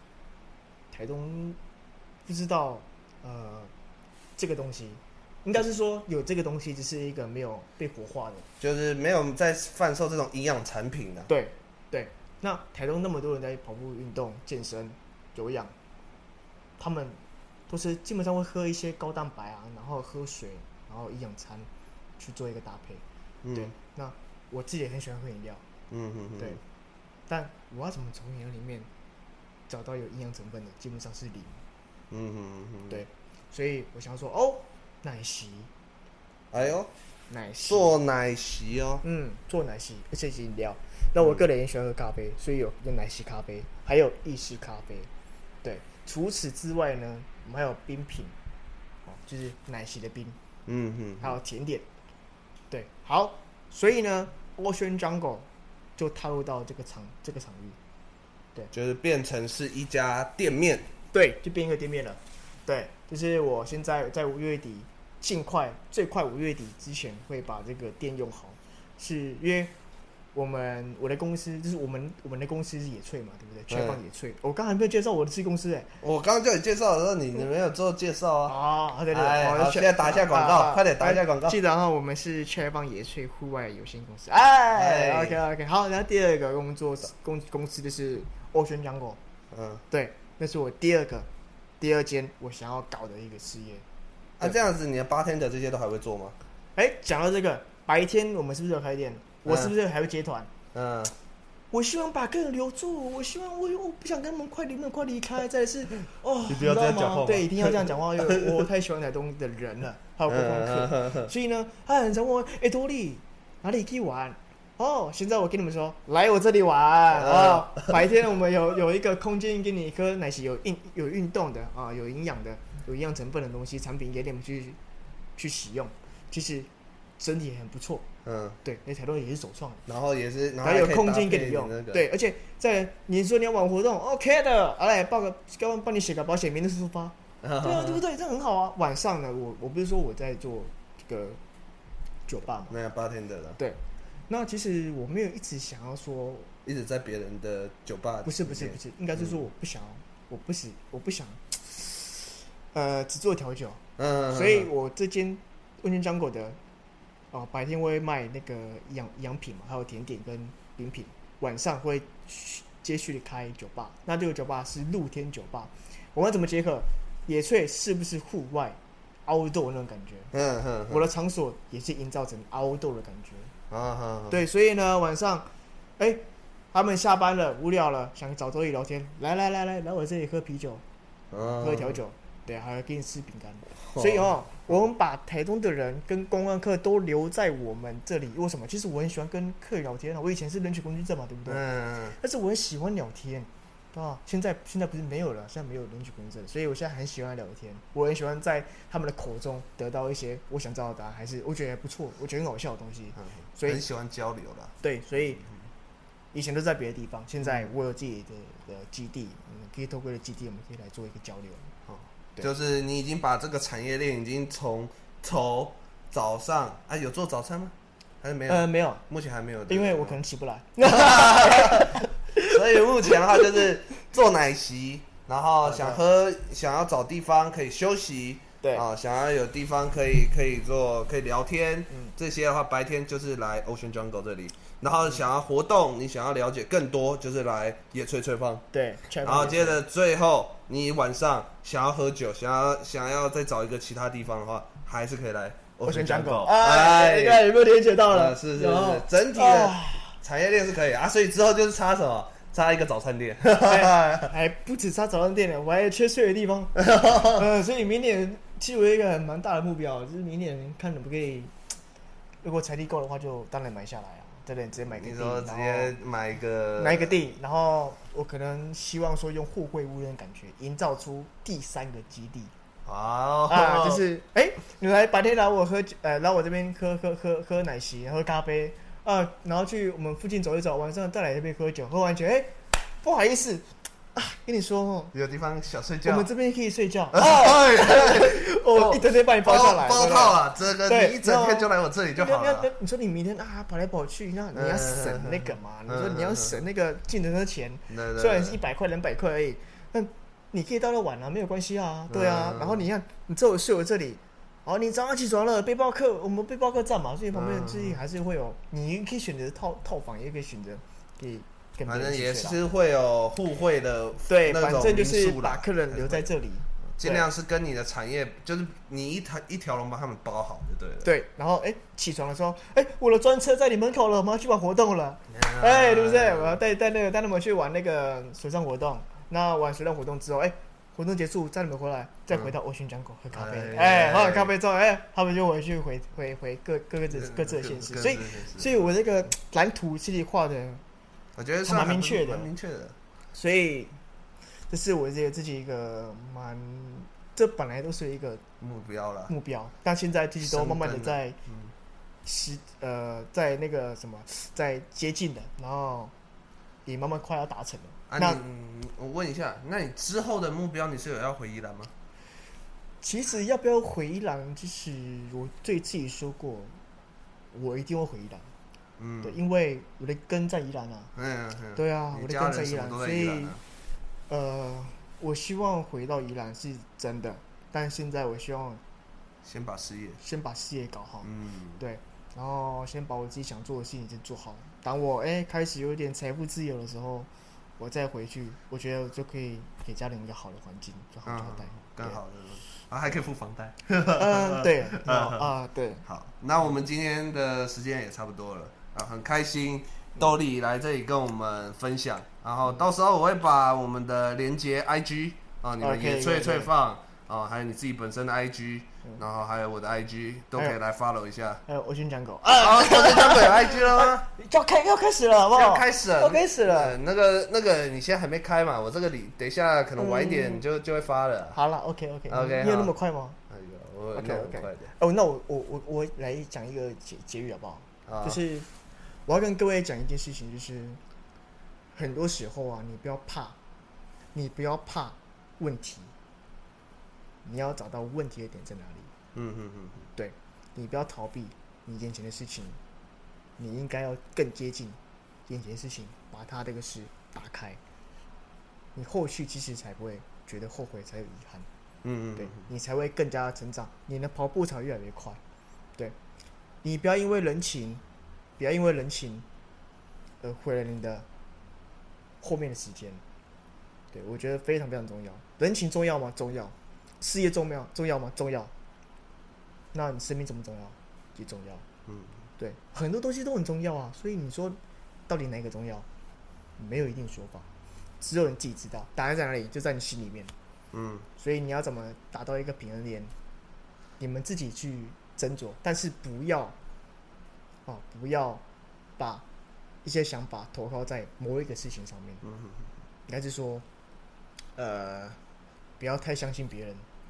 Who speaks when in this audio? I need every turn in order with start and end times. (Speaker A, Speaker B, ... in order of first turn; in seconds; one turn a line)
Speaker A: 0.9-1.6
Speaker A: 2.2-3.7
Speaker A: 4.4-8.5
Speaker B: 8.6-11.3
Speaker A: 11.3-15.7
Speaker A: 16.8-25.6
Speaker B: 23.4-23.7
Speaker B: 25.9-26.6
Speaker A: 27.3-28.9
Speaker A: 29.7-31.6
Speaker B: 32.1-33.0
Speaker A: 32.9-35.7
Speaker B: 36.5-36.9
Speaker A: 37.3-37.9
Speaker B: 37.7-39.0
Speaker A: 39.0-45.1
Speaker A: 45.6-48.4
Speaker A: 49.0-50.4
Speaker B: 50.7-51.3
Speaker A: 51.2-51.9
Speaker A: 52.7-57.8
Speaker B: 58.7-60.9
Speaker A: 61.1-69.7
Speaker A: 70.3-75.9
Speaker B: 73.7-74.0
Speaker B: 76.0-78.6
Speaker A: 78.5-89.2
Speaker B: 79.1-81.5
Speaker B: 84.7-85.4
Speaker B: 89.5-89.8
Speaker A: 89.9-91.3
Speaker A: 91.8-93.8
Speaker B: 94.4-96.3
Speaker A: 96.8-100.5
Speaker B: 99.5-99.7
Speaker B: 100.7-101.1
Speaker A: 101.7-124.8
Speaker B: 106.5-108.6
Speaker B: 110.3-111.3
Speaker B: 117.1-118.0
Speaker A: 125.4-128.1
Speaker B: 128.2-128.6
Speaker A: 128.6-129.8
Speaker B: 129.8-132.0
Speaker A: 130.6-141.4
Speaker B: 137.4-138.0
Speaker A: 142.3-142.8
Speaker B: 142.7-143.6
Speaker A: 143.6-146.5
Speaker B: 146.6-149.4
Speaker A: 148.2-156.6
Speaker B: 154.0-154.7
Speaker A: 157.3-170.3
Speaker B: 170.3-171.0
Speaker A: 170.9-173.5
Speaker B: 173.7-174.4
Speaker A: 174.3-180.8
Speaker B: 181.3-182.0
Speaker A: 181.4-203.8
Speaker B: 183.9-184.8
Speaker B: 191.4-192.2
Speaker B: 203.2-204.8
Speaker A: 204.8-205.4
Speaker A: 206.3-211.7
Speaker B: 211.8-220.2
Speaker A: 218.5-219.0
Speaker A: 219.7-223.6
Speaker B: 220.8-238.7
Speaker A: 225.6-226.0
Speaker A: 238.7-239.8
Speaker B: 239.2-247.5
Speaker A: 245.8-250.2
Speaker B: 248.1-254.3
Speaker A: 253.6-261.5
Speaker B: 256.8-257.4
Speaker A: 262.4-265.9
Speaker B: 264.8-267.2
Speaker A: 266.8-272.5
Speaker B: 272.9-274.0
Speaker A: 273.5-285.1
Speaker B: 285.1-286.3
Speaker A: 286.0-312.6
Speaker B: 287.1-292.7
Speaker B: 294.5-296.6
Speaker B: 297.9-298.6
Speaker B: 302.1-302.8
Speaker B: 307.3-308.0
Speaker B: 311.9-316.3
Speaker A: 314.3-317.3
Speaker B: 316.9-321.1
Speaker A: 321.0-340.8
Speaker B: 325.3-326.6
Speaker B: 333.3-334.5
Speaker B: 337.1-338.8
Speaker B: 341.4-342.9
Speaker A: 341.6-342.5
Speaker A: 343.3-344.0
Speaker A: 344.7-348.4
Speaker B: 348.6-349.3
Speaker A: 349.3-351.4
Speaker B: 350.4-351.7
Speaker A: 352.2-356.1
Speaker A: 356.8-358.4
Speaker B: 358.1-361.9
Speaker A: 363.0-366.8
Speaker A: 367.5-368.5
Speaker B: 369.0-369.4
Speaker A: 369.2-371.1
Speaker B: 371.1-373.6
Speaker A: 371.8-373.6
Speaker A: 374.3-378.8
Speaker B: 379.4-380.2
Speaker A: 380.2-392.2
Speaker B: 381.2-381.8
Speaker B: 391.2-395.5
Speaker A: 394.1-396.1
Speaker B: 396.1-411.6
Speaker A: 405.8-406.7
Speaker A: 411.6-417.0
Speaker B: 412.5-414.3
Speaker B: 415.5-421.6
Speaker A: 420.0-420.6
Speaker A: 421.5-423.4
Speaker B: 422.3-422.9
Speaker B: 423.5-424.9
Speaker A: 424.1-428.7
Speaker B: 428.1-428.4
Speaker A: 429.2-431.0
Speaker A: 431.9-433.6
Speaker A: 434.3-436.1
Speaker A: 437.4-439.1
Speaker B: 439.3-440.1
Speaker A: 440.1-442.8
Speaker A: 443.6-447.8
Speaker A: 448.9-451.7
Speaker B: 452.0-452.6
Speaker A: 452.3-455.4
Speaker A: 456.8-458.0
Speaker A: 458.6-459.4
Speaker A: 460.4-461.2
Speaker A: 462.4-463.2
Speaker A: 464.1-468.7
Speaker A: 469.9-471.8
Speaker A: 472.6-476.1
Speaker A: 476.8-477.7
Speaker A: 478.2-480.5
Speaker B: 480.9-481.3
Speaker A: 481.4-483.3
Speaker A: 484.2-486.8
Speaker A: 487.9-488.6
Speaker A: 489.2-489.4
Speaker A: 490.0-492.4
Speaker B: 492.4-492.8
Speaker A: 493.3-493.8
Speaker A: 494.8-495.4
Speaker A: 496.0-497.1